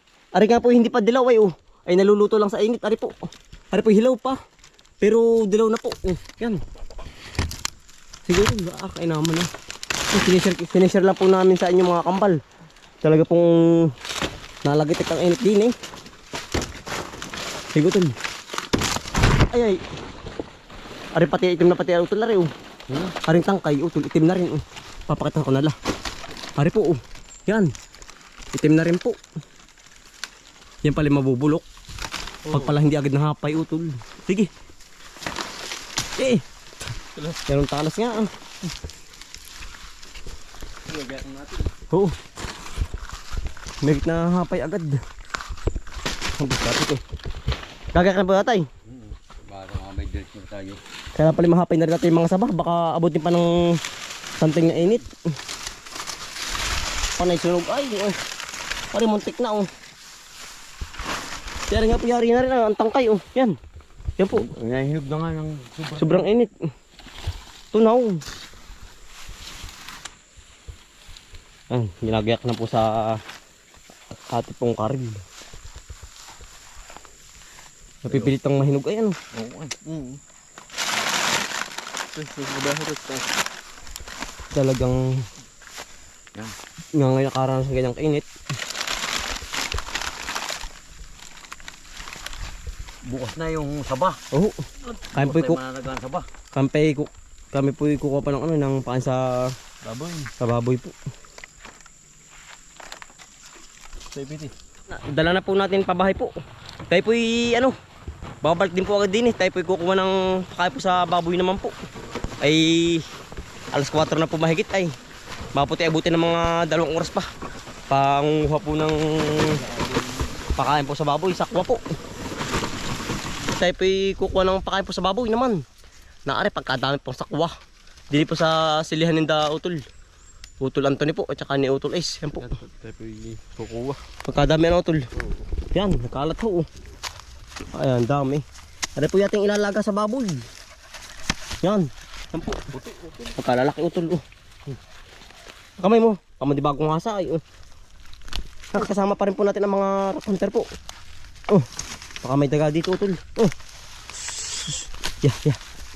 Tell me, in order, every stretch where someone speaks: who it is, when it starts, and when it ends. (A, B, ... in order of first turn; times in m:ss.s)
0:00.3-0:03.1 A
0:03.7-0:04.4 A
0:05.0-0:06.6 A
0:08.2-0:09.5 A
0:10.1-0:12.4 A
0:13.0-0:13.9 A
0:14.6-0:15.7 A
0:17.7-0:18.2 A
0:19.5-0:19.8 A
0:21.1-0:22.5 A
0:23.2-0:25.7 A
0:26.6-0:27.7 A
0:28.5-0:29.2 A
0:30.8-0:31.6 A
0:32.4-0:32.7 B
0:32.5-0:34.5 A
0:36.2-0:36.4 A
0:37.5-0:38.3 A
0:40.9-0:41.6 C
0:43.8-0:45.0 A
0:46.4-0:47.0 A
0:47.9-0:48.6 A
0:48.9-0:50.8 C
0:51.1-0:53.8 A
0:54.4-0:55.1 A
0:57.2-0:58.2 A
0:58.9-0:59.7 A
1:01.7-1:03.6 A
1:04.2-1:04.5 A
1:04.3-1:06.3 C
1:06.0-1:06.5 A
1:07.7-1:08.2 A
1:11.7-1:13.2 A
1:14.3-1:15.2 A
1:18.0-1:19.1 A
1:18.1-1:18.3 C
1:19.3-1:20.1 C
1:22.1-1:23.3 B
1:24.5-1:25.2 A
1:27.0-1:28.3 A
1:33.0-1:34.2 C
1:34.3-1:34.6 A
1:35.1-1:35.6 A
1:35.1-1:36.2 C
1:36.5-1:39.5 A
1:39.8-1:40.3 B
1:40.4-1:40.9 A
1:44.1-1:44.5 B
1:44.9-1:46.3 A
1:46.9-1:47.7 A
1:48.4-1:51.7 A
1:52.4-1:53.0 A
1:53.7-1:54.9 A
1:55.5-1:57.3 A
1:57.9-1:59.6 A
1:59.6-2:00.1 B
2:00.6-2:01.8 A
2:03.5-2:05.6 A
2:06.3-2:07.5 A
2:08.1-2:09.8 A
2:10.6-2:12.6 A
2:12.4-2:14.0 B
2:14.2-2:15.0 A
2:15.7-2:16.7 A
2:17.7-2:18.4 A
2:19.0-2:20.4 A
2:21.6-2:22.7 A
2:22.7-2:23.3 B
2:23.3-2:24.2 A
2:25.8-2:27.4 A
2:28.7-2:30.7 A
2:32.2-2:33.5 A
2:34.3-2:35.6 A